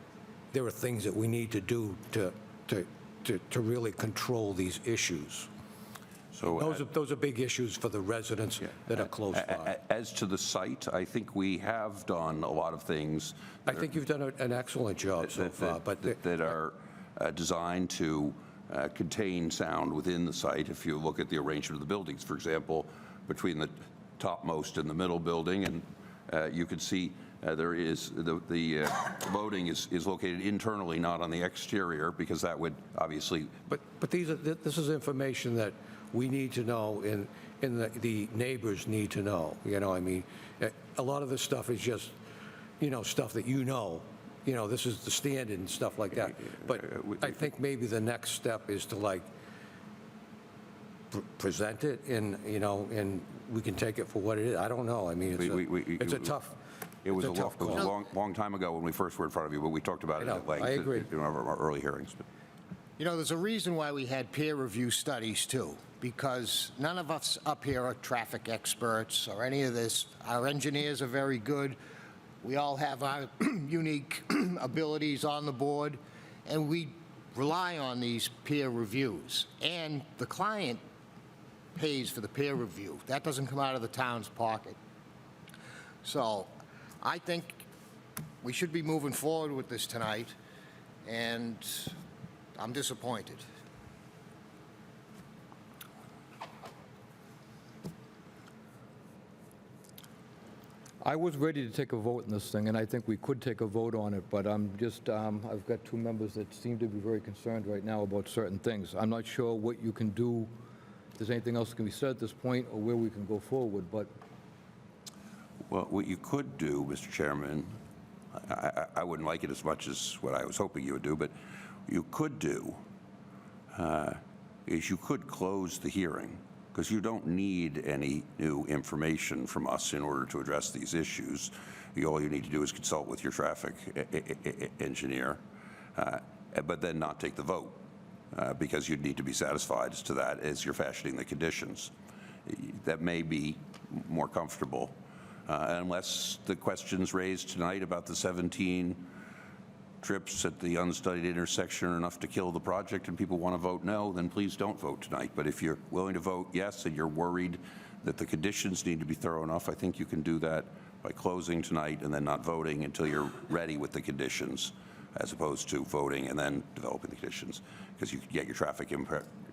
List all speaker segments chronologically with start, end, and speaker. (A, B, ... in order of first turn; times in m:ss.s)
0:00.5-0:05.5 A
0:06.3-0:06.9 B
0:06.5-0:09.7 A
0:08.9-0:13.9 B
0:13.7-0:16.2 A
0:15.2-0:33.5 B
0:33.7-0:42.1 A
0:42.8-0:49.3 A
0:46.3-0:47.5 B
0:51.1-0:56.5 A
0:55.4-0:56.4 B
0:57.0-1:02.2 B
0:57.2-0:57.9 A
1:00.2-1:01.1 A
1:03.0-1:11.8 C
1:12.4-1:20.8 C
1:21.7-1:24.8 C
1:26.0-1:27.6 C
1:28.4-1:30.3 C
1:31.0-1:31.9 C
1:32.6-1:33.4 C
1:41.0-1:50.5 D
1:51.2-1:54.1 D
1:55.7-1:57.8 B
1:58.4-2:01.3 B
2:01.9-2:02.8 B
2:03.7-2:15.4 B
2:16.0-2:17.8 B
2:18.3-2:21.9 B
2:22.4-2:25.0 B
2:25.5-2:29.1 B
2:30.0-2:49.3 B